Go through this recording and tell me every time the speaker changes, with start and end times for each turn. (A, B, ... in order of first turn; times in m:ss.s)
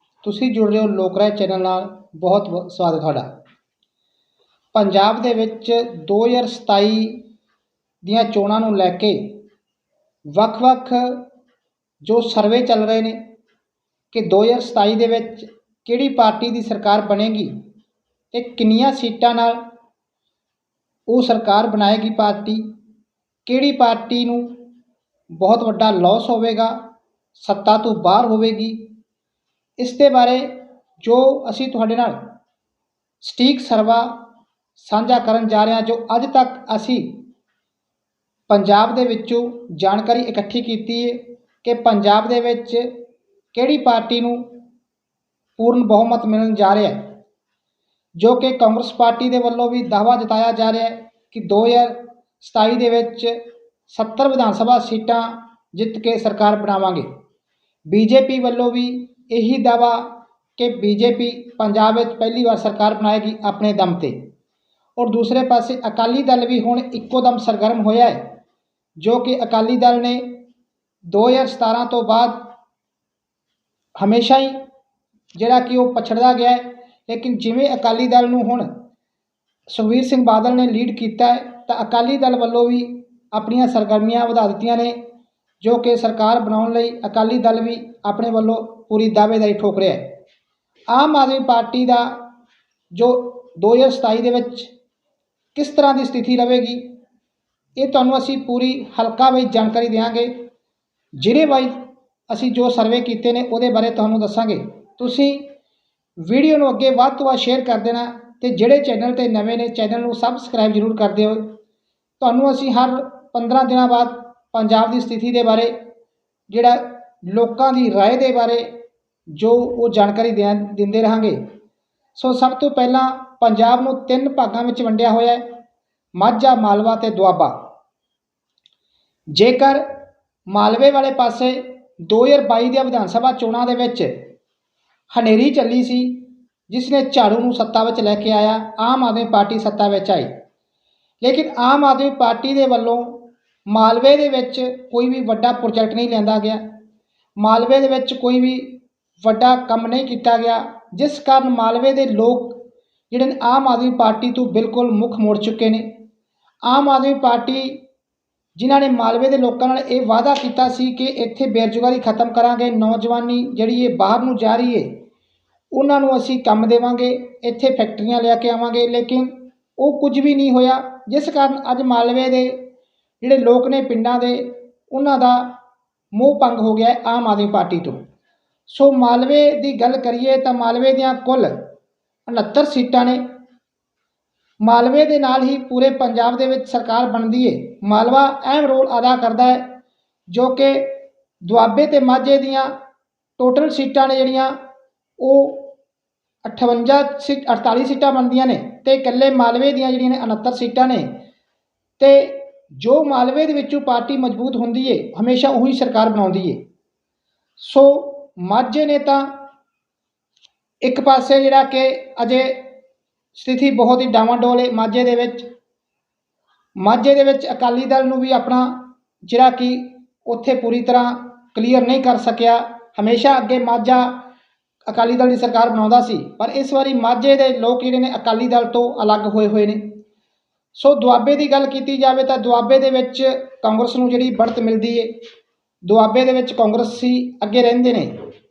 0:00.2-0:03.3 A
0:04.7-0:07.2 A
0:08.0-0:09.4 A
0:10.3-0:11.2 A
0:12.0-0:13.2 A
0:14.1-0:17.5 A
0:18.3-0:19.6 A
0:21.1-0:22.6 A
0:23.4-0:24.6 A
0:25.3-0:28.9 A
0:29.8-0:32.3 A
0:33.2-0:34.2 A
0:34.8-0:37.2 A
0:38.5-0:42.9 A
0:43.5-0:44.6 A
0:45.6-0:47.1 A
0:48.2-0:57.0 A
0:57.9-1:04.3 A
1:05.0-1:08.2 A
1:09.0-1:10.4 A
1:11.1-1:12.5 A
1:14.0-1:14.6 A
1:15.3-1:18.7 A
1:19.7-1:25.0 A
1:25.6-1:30.2 A
1:30.9-1:32.3 A
1:32.9-1:34.7 A
1:35.5-1:36.9 A
1:37.8-1:40.4 A
1:41.2-1:45.5 A
1:46.2-1:51.6 A
1:52.2-1:55.7 A
1:56.5-1:58.7 A
1:59.3-2:01.4 A
2:02.1-2:05.5 A
2:06.1-2:07.6 A
2:09.3-2:09.8 A
2:10.5-2:14.3 A
2:15.1-2:20.3 A
2:21.2-2:26.6 A
2:27.4-2:36.0 A
2:36.6-2:37.8 A
2:38.6-2:45.0 A
2:45.7-2:52.7 A
2:53.2-2:55.5 A
2:56.1-2:58.0 A
2:58.7-3:01.7 A
3:02.3-3:03.2 A
3:04.6-3:09.8 A
3:10.3-3:12.7 A
3:13.4-3:14.5 A
3:15.2-3:15.7 A
3:16.4-3:21.2 A
3:22.0-3:26.6 A
3:27.6-3:29.4 A
3:30.8-3:32.7 A
3:33.3-3:35.5 A
3:36.8-3:44.2 A
3:44.9-3:50.0 A
3:50.7-3:55.2 A
3:55.8-3:58.2 A